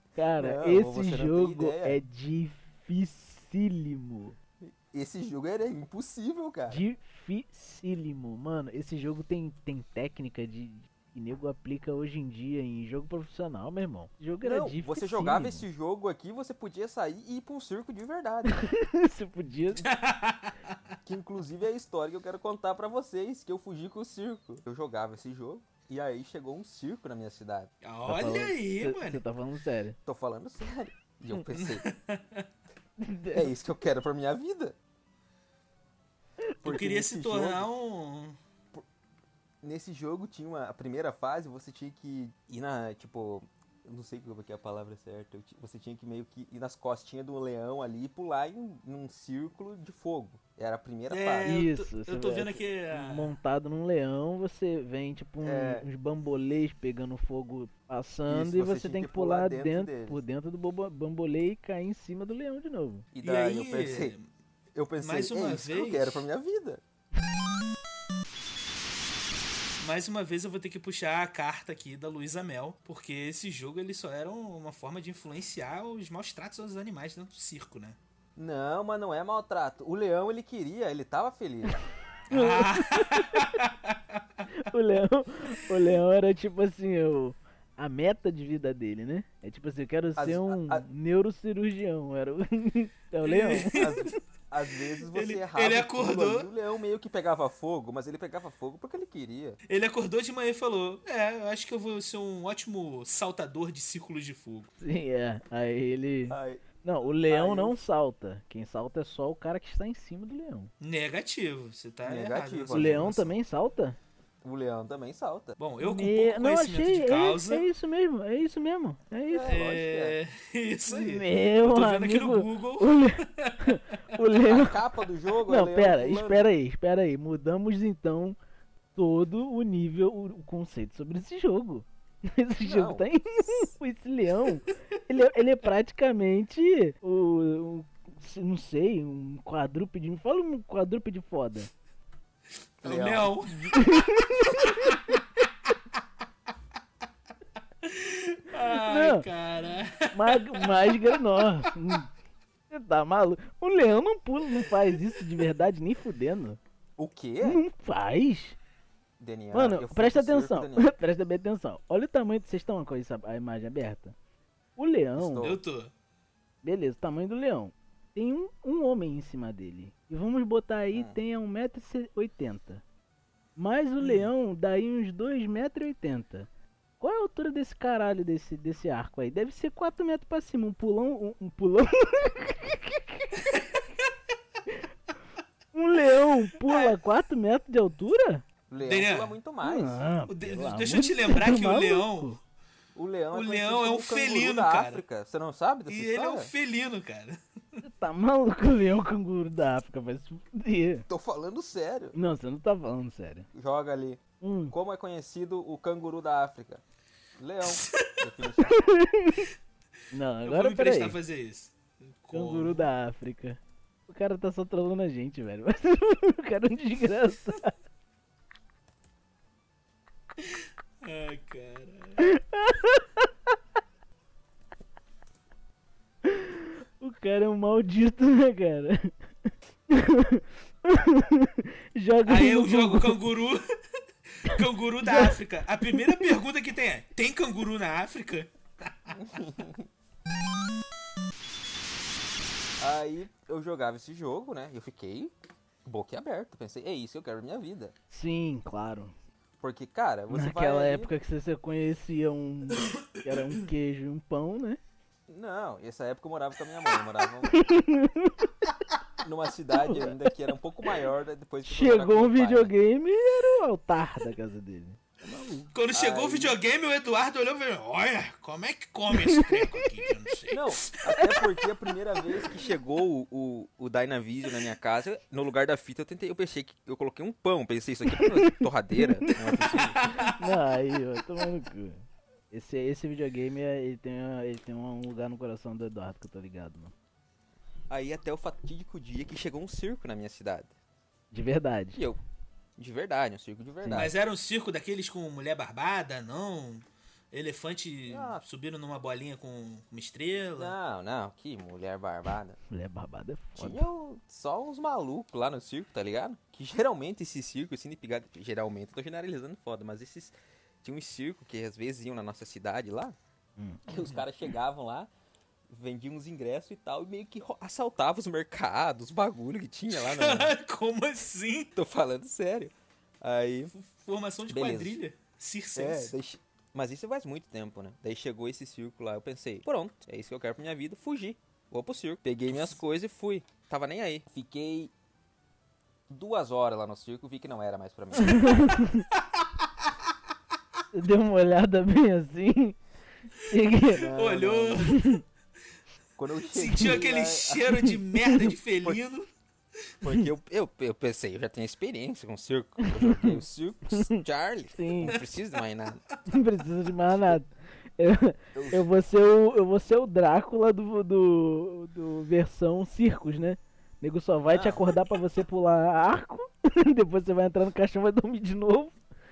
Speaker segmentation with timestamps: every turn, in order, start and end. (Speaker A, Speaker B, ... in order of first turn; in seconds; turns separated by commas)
Speaker A: 0.2-4.4, Speaker B: 0.4-2.0, Speaker B: 4.6-6.8, Speaker A: 6.7-15.7, Speaker B: 14.4-18.7, Speaker A: 18.5-19.9, Speaker C: 19.8-20.8, Speaker B: 21.1-27.7, Speaker C: 27.8-29.2, Speaker A: 28.1-30.0, Speaker B: 30.1-31.8, Speaker C: 31.5-32.5, Speaker A: 33.0-33.5, Speaker B: 33.3-34.8, Speaker B: 36.6-37.7, Speaker C: 36.6-38.4, Speaker B: 39.6-51.6, Speaker C: 51.1-53.3, Speaker A: 51.5-63.1, Speaker B: 55.4-55.9, Speaker B: 58.3-60.2, Speaker B: 63.1-64.1, Speaker C: 63.2-64.3, Speaker B: 64.8-66.8, Speaker C: 65.0-66.3, Speaker C: 69.8-78.0, Speaker B: 78.4-81.8, Speaker C: 82.3-84.4, Speaker A: 82.3-83.5, Speaker A: 84.5-94.1, Speaker B: 90.2-90.9, Speaker C: 93.2-94.1, Speaker B: 93.7-99.6, Speaker C: 95.1-96.5, Speaker C: 99.7-104.7, Speaker A: 104.8-110.7, Speaker B: 106.3-106.7, Speaker B: 107.3-107.8, Speaker C: 110.8-113.3, Speaker B: 112.1-113.2, Speaker A: 112.7-114.0, Speaker B: 114.4-115.6, Speaker C: 115.6-117.7, Speaker A: 115.8-119.6, Speaker B: 119.3-120.2, Speaker C: 119.4-123.8, Speaker A: 120.9-124.8, Speaker B: 124.4-126.5, Speaker A: 125.5-128.4, Speaker A: 129.0-141.7, Speaker B: 132.6-133.7, Speaker B: 142.8-143.4, Speaker C: 142.8-143.6, Speaker A: 143.6-145.0, Speaker C: 144.5-145.5, Speaker C: 147.8-151.1, Speaker A: 148.6-149.3, Speaker A: 150.1-152.1, Speaker A: 152.7-156.6, Speaker B: 157.0-157.6, Speaker A: 157.4-158.6, Speaker B: 159.2-160.9, Speaker A: 159.5-164.2, Speaker A: 164.8-165.5, Speaker B: 165.2-165.6, Speaker C: 165.4-165.9, Speaker A: 166.6-172.8, Speaker B: 170.9-171.2, Speaker A: 173.6-176.5, Speaker C: 174.0-174.3, Speaker A: 177.0-183.5, Speaker C: 183.4-183.8, Speaker A: 185.7-188.4, Speaker C: 186.7-187.0, Speaker B: 188.7-190.1, Speaker C: 188.8-189.3, Speaker A: 189.6-192.4, Speaker C: 190.3-192.3, Speaker B: 193.0-196.5, Speaker C: 193.3-195.0, Speaker C: 195.9-197.8, Speaker A: 197.8-201.1, Speaker B: 201.1-202.2, Speaker A: 202.1-203.5, Speaker B: 203.5-206.8, Speaker A: 204.4-204.7, Speaker B: 207.4-208.8, Speaker C: 207.7-208.1, Speaker A: 208.7-209.5, Speaker A: 210.1-211.2, Speaker C: 210.4-212.8, Speaker A: 212.3-217.8, Speaker C: 220.4-222.2, Speaker A: 222.2-223.3, Speaker A: 226.2-233.2, Speaker C: 232.3-233.6, Speaker C: 234.4-239.2, Speaker A: 235.1-236.3, Speaker B: 239.1-239.9, Speaker B: 242.8-245.3, Speaker B: 245.8-247.9, Speaker A: 248.1-249.1, Speaker B: 249.6-251.1, Speaker A: 250.3-254.8, Speaker B: 255.3-257.7, Speaker A: 257.5-258.6, Speaker B: 259.2-262.7, Speaker A: 259.8-260.5, Speaker A: 261.7-265.7, Speaker C: 265.7-271.4, Speaker B: 265.9-266.6, Speaker A: 269.1-269.9, Speaker B: 270.5-280.1, Speaker A: 278.1-286.9, Speaker C: 279.6-280.6, Speaker B: 287.9-290.7, Speaker A: 291.3-292.0, Speaker B: 291.9-292.2, Speaker B: 292.8-294.1, Speaker A: 293.8-294.1, Speaker C: 294.0-300.8, Speaker B: 298.1-298.4, Speaker B: 300.6-302.6, Speaker A: 302.7-303.8, Speaker B: 303.6-313.2, Speaker A: 313.6-314.1, Speaker B: 313.9-315.1, Speaker B: 315.7-320.6, Speaker C: 319.9-321.7, Speaker B: 321.8-323.7, Speaker C: 323.7-326.1, Speaker B: 324.5-325.0, Speaker B: 325.8-334.9, Speaker B: 336.1-338.7, Speaker A: 338.2-339.1, Speaker C: 338.3-338.5, Speaker C: 339.1-339.9, Speaker A: 340.9-342.8, Speaker A: 343.4-344.1, Speaker B: 343.9-344.9, Speaker C: 343.9-345.2, Speaker A: 344.8-345.2, Speaker B: 346.2-347.8, Speaker C: 346.4-349.3, Speaker A: 346.7-347.0, Speaker A: 347.7-348.5, Speaker B: 350.0-356.0, Speaker A: 352.8-354.2, Speaker A: 354.8-355.2, Speaker A: 356.3-369.0, Speaker B: 358.5-358.9, Speaker B: 364.5-364.9